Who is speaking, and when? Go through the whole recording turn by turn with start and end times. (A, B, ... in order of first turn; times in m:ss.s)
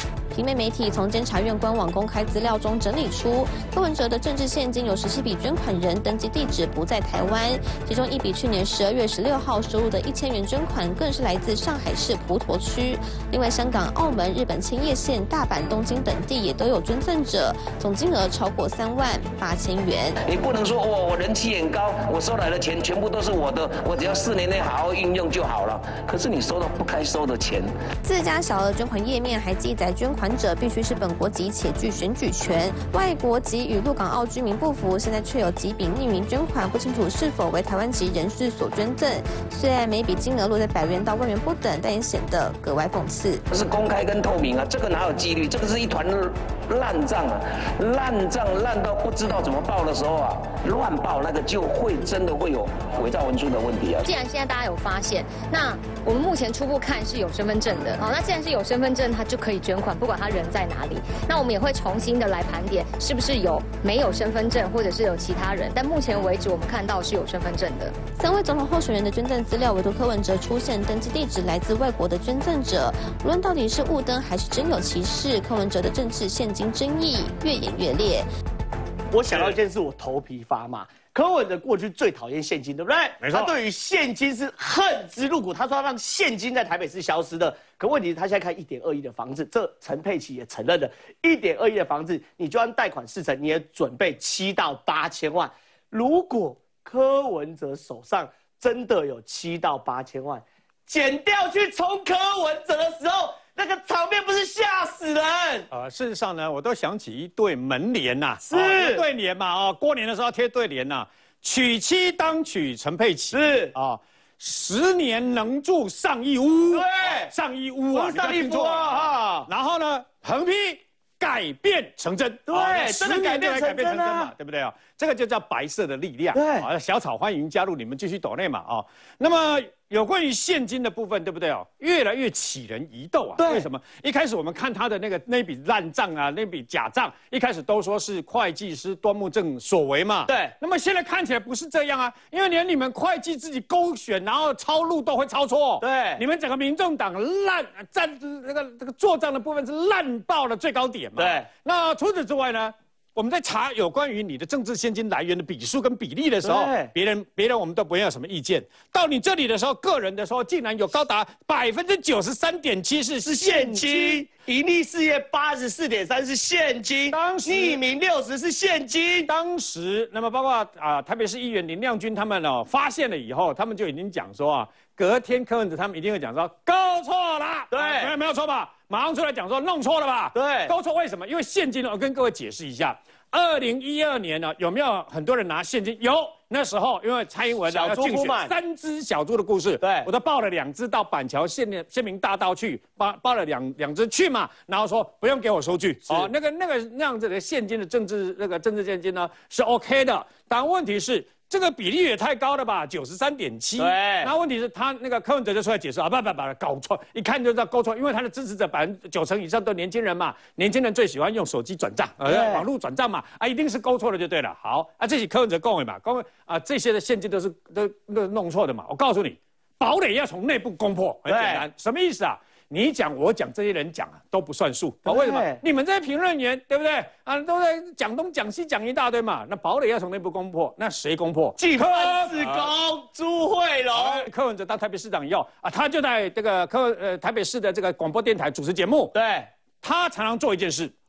0:00.3-0:20.2 A
0:20.2-0:27.7 B
0:28.0-0:43.4 A
0:43.5-0:54.1 B
0:54.0-1:08.0 C
1:08.1-1:18.3 A
1:19.1-1:45.7 D
1:19.3-1:19.6 E
1:23.2-1:23.5 E
1:45.7-2:44.2 E
1:48.4-1:49.0 D
1:53.3-1:53.7 D
1:56.7-1:57.3 D
1:57.9-1:59.5 D
2:02.5-2:04.3 D
2:06.3-2:06.7 D
2:13.4-2:13.7 D
2:20.3-2:20.5 D
2:25.8-2:26.2 D
2:31.2-2:31.4 D
2:36.4-2:36.9 D
2:43.2-2:49.3 D
2:47.1-2:47.8 E
2:49.3-3:52.7 E
2:57.7-2:58.1 D
3:00.3-3:00.7 D
3:07.7-3:08.5 D
3:09.8-3:10.1 D
3:23.8-3:24.3 D
3:32.2-3:32.6 D
3:41.2-3:41.6 D
3:45.0-3:45.6 D
3:51.6-3:54.2 D
3:53.9-3:59.1 E
3:59.1-3:59.5 D
3:59.8-4:00.9 E